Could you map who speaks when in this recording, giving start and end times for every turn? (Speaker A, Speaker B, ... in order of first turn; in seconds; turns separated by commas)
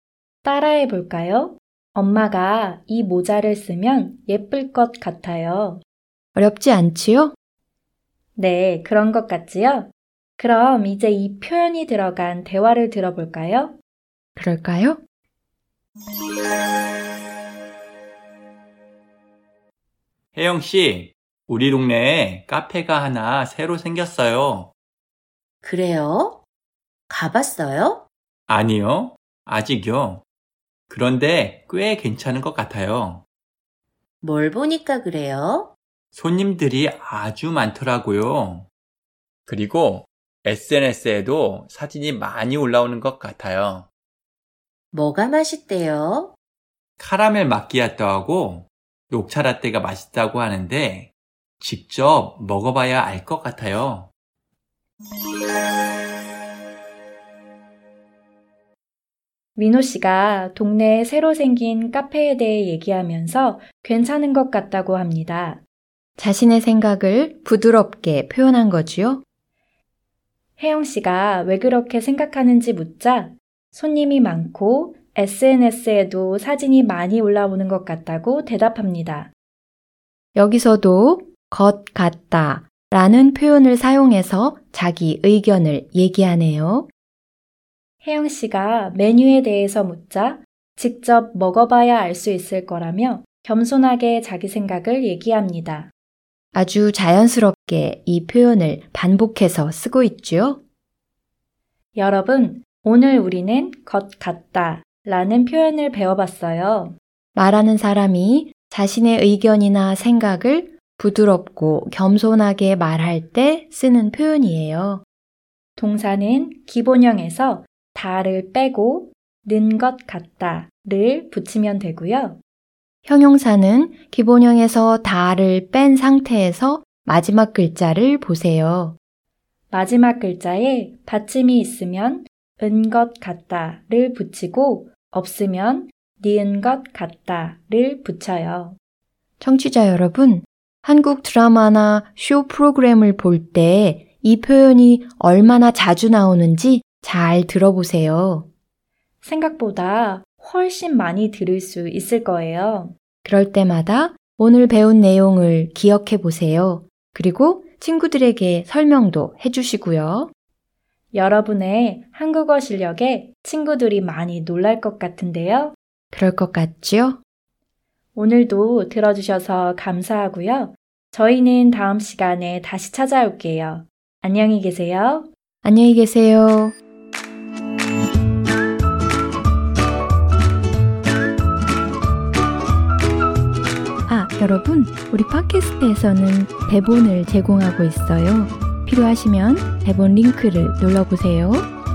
Speaker A: 0.4-5.8, Speaker B: 6.3-7.3, Speaker A: 8.3-13.7, Speaker B: 14.3-15.0, Speaker C: 20.3-24.7, Speaker D: 25.6-26.4, Speaker D: 27.1-28.1, Speaker C: 28.5-30.2, Speaker C: 30.9-33.2, Speaker D: 34.2-35.7, Speaker C: 36.1-38.7, Speaker C: 39.5-43.9, Speaker D: 44.9-46.3, Speaker C: 47.0-54.1, Speaker A: 59.5-65.6, Speaker B: 66.2-69.2, Speaker A: 70.6-79.3, Speaker B: 80.3-86.9, Speaker A: 88.0-95.9, Speaker B: 96.5-100.6, Speaker A: 101.9-106.9, Speaker B: 107.3-115.0, Speaker A: 115.8-122.4, Speaker B: 123.0-128.9, Speaker A: 129.7-138.8, Speaker B: 139.4-148.4, Speaker A: 149.2-152.9, Speaker B: 153.2-160.3, Speaker A: 161.1-165.7, Speaker B: 166.1-167.2, Speaker A: 168.1-175.3, Speaker B: 175.6-176.8, Speaker B: 184.1-191.7